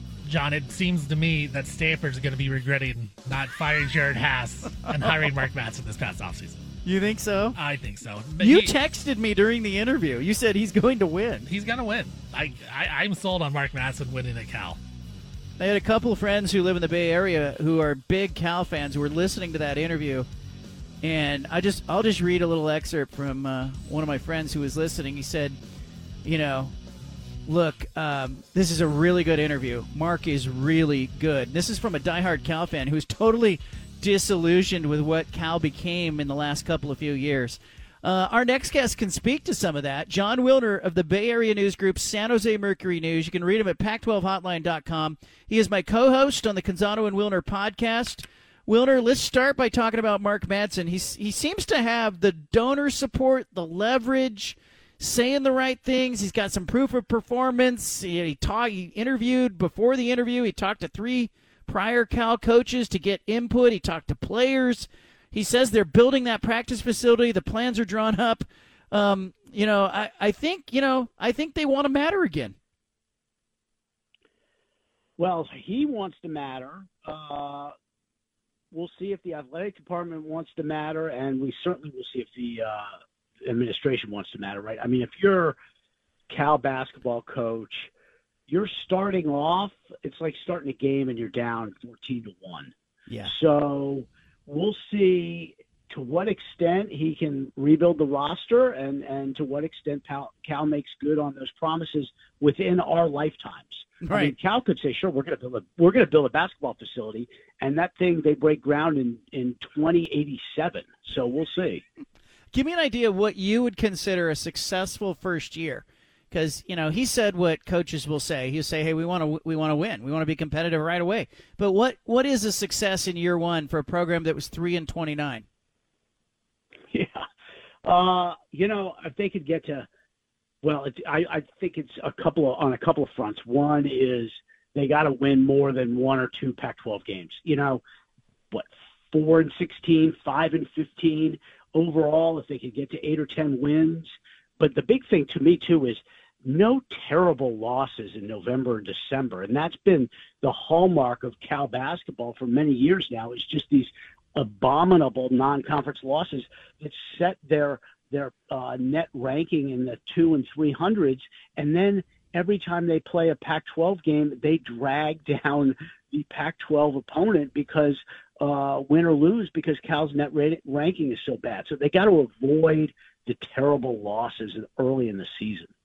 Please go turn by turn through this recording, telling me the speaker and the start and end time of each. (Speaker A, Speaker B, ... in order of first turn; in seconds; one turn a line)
Speaker A: 0.2-6.6
Speaker B: 6.8-7.5
Speaker A: 7.5-8.7
Speaker B: 8.4-11.5
Speaker A: 11.4-14.8
Speaker B: 15.6-20.3
Speaker B: 21.0-25.6
Speaker B: 26.2-26.7
Speaker B: 27.5-72.5
Speaker C: 75.2-77.7
Speaker C: 78.7-85.6
Speaker C: 86.3-87.9
Speaker C: 88.5-92.7
Speaker B: 93.1-93.3
Speaker C: 93.2-111.8
Speaker B: 104.0-104.3
Speaker B: 112.5-125.4
Speaker C: 126.9-127.2
Speaker C: 127.8-129.9
Speaker C: 130.6-137.8
Speaker C: 138.5-175.7